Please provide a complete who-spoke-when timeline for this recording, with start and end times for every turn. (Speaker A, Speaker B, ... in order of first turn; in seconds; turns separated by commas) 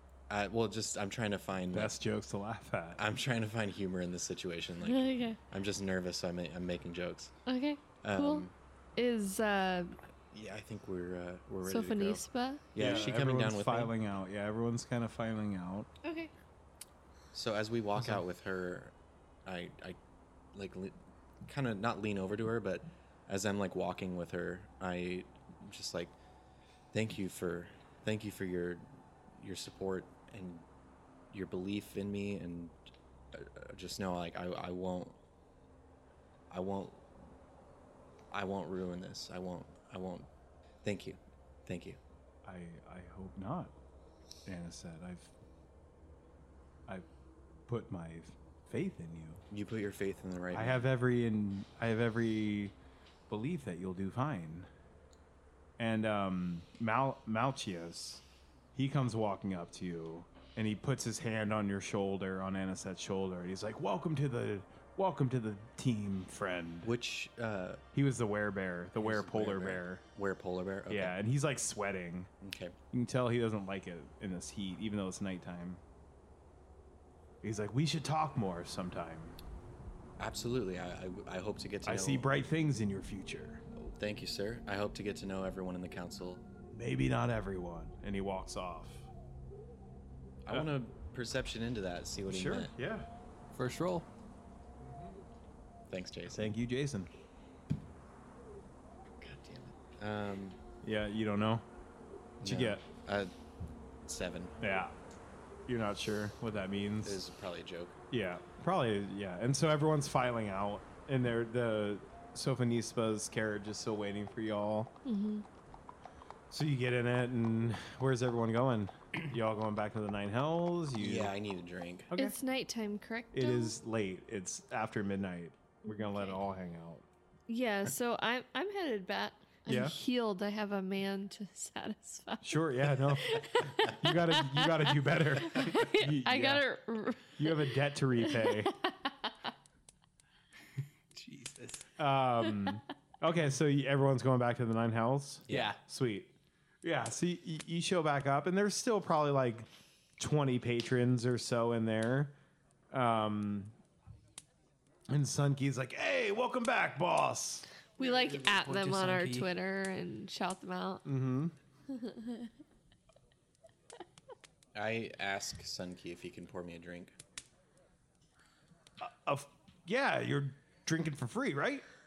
Speaker A: 0.3-1.9, Speaker B: 1.7-3.0, Speaker A: 3.0-7.3, Speaker C: 4.8-5.4, Speaker C: 7.5-10.0, Speaker A: 8.0-8.5, Speaker A: 10.3-12.2, Speaker C: 11.7-12.7, Speaker A: 12.7-13.9, Speaker B: 12.8-15.9, Speaker C: 16.0-16.3, Speaker A: 17.3-18.9, Speaker A: 19.4-20.0, Speaker A: 20.5-26.1, Speaker A: 26.9-30.7, Speaker A: 31.3-32.8, Speaker A: 33.3-35.2, Speaker A: 36.5-37.0, Speaker A: 38.3-40.3, Speaker A: 40.8-42.0, Speaker B: 42.5-43.7, Speaker B: 44.5-45.3, Speaker B: 47.7-49.4, Speaker A: 49.5-50.8, Speaker B: 50.5-52.8, Speaker B: 53.3-54.7, Speaker B: 55.8-58.2, Speaker B: 58.8-66.9, Speaker A: 66.8-67.8, Speaker B: 67.9-70.0, Speaker A: 69.0-71.1, Speaker B: 70.9-72.3, Speaker A: 72.4-72.8, Speaker B: 72.9-75.8, Speaker B: 77.4-79.4, Speaker A: 80.2-82.3, Speaker B: 81.8-83.6, Speaker A: 83.8-86.5, Speaker B: 86.7-89.1, Speaker A: 90.5-92.7, Speaker B: 92.3-93.1, Speaker D: 93.5-94.1, Speaker A: 95.9-96.5, Speaker B: 96.3-97.1, Speaker A: 99.2-100.6, Speaker B: 100.8-101.6, Speaker B: 102.4-102.8, Speaker A: 102.4-103.3, Speaker A: 104.1-104.5, Speaker B: 104.6-104.9, Speaker B: 105.7-107.2, Speaker A: 107.0-108.0, Speaker B: 108.1-114.9, Speaker C: 115.0-115.5, Speaker B: 116.5-121.3, Speaker A: 121.0-122.1, Speaker B: 122.1-122.3, Speaker C: 122.1-123.8, Speaker B: 123.3-127.0, Speaker C: 125.9-126.4, Speaker C: 127.5-139.3, Speaker B: 129.7-129.9, Speaker B: 132.4-136.7, Speaker B: 137.2-138.7, Speaker D: 141.2-141.9, Speaker B: 142.0-146.3, Speaker D: 145.5-145.8, Speaker B: 146.8-149.7, Speaker B: 150.2-152.4, Speaker B: 152.9-153.8, Speaker B: 155.1-157.7, Speaker C: 158.0-161.1, Speaker D: 158.0-159.5, Speaker B: 161.1-161.6, Speaker C: 161.9-162.5, Speaker A: 164.7-167.2, Speaker B: 169.0-171.9